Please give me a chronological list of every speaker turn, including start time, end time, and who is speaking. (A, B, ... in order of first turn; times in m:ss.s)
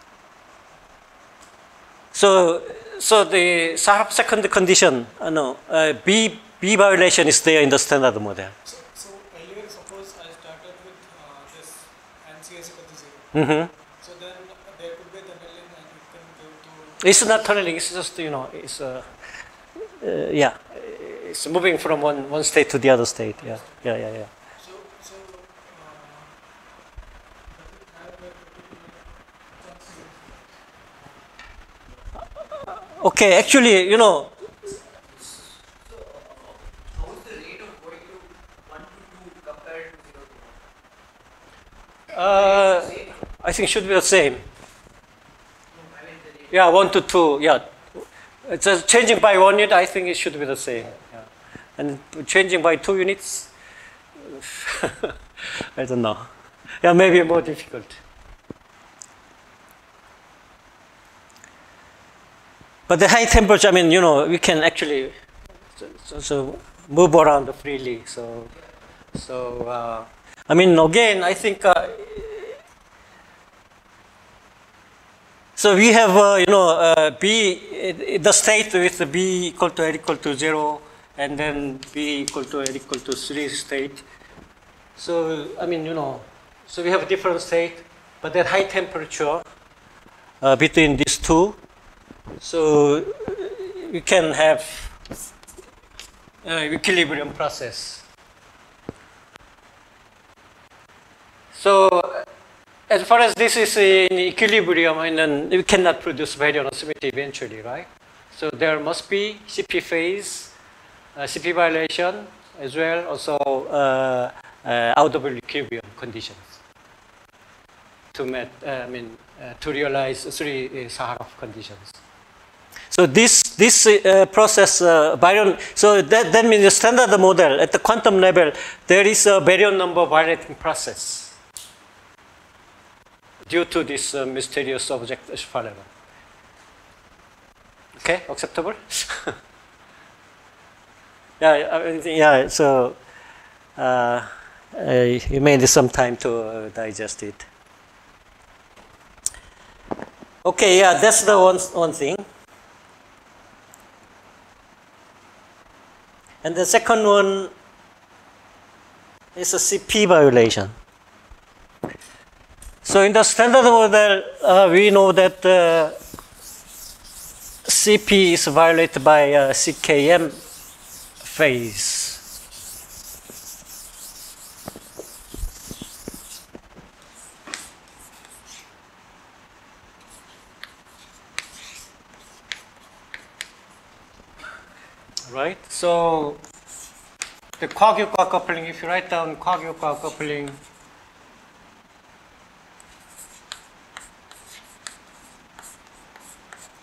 0:02.1-0:08.5 A
0:08.6-0:13.4 B
0:13.3-0:13.7 A
0:14.0-0:17.5 B
0:17.0-0:19.1 A
0:20.0-0:24.3 A
0:24.6-0:26.4 B
0:27.5-0:30.5 B
0:32.9-0:34.4 A
0:35.8-0:40.6 C
0:42.1-0:44.4 A
0:42.3-0:43.1 C
0:45.7-0:46.6 C
0:46.5-0:51.2 A
0:51.8-0:53.5 A
0:54.2-0:56.3 A
0:56.8-0:58.0 A
1:02.9-1:05.1 A
1:05.8-1:08.5 A
1:09.1-1:12.6 A
1:15.6-1:24.0 A
1:25.0-1:29.4 A
1:30.4-1:31.6 A
1:32.4-1:34.9 A
1:36.4-1:38.0 A
1:41.5-1:42.3 A
1:42.9-1:50.5 A
1:51.2-1:56.6 A
1:58.1-2:02.0 A
2:02.9-2:11.4 A
2:13.5-2:15.9 A
2:18.0-2:19.4 A
2:21.4-2:23.0 A
2:23.8-2:27.4 A
2:30.4-2:32.2 A
2:36.4-2:37.5 A
2:39.4-2:40.7 A
2:42.8-2:46.0 A
2:47.7-2:50.4 A
2:51.2-2:52.2 A
3:05.3-3:06.4 A
3:07.6-3:10.6 A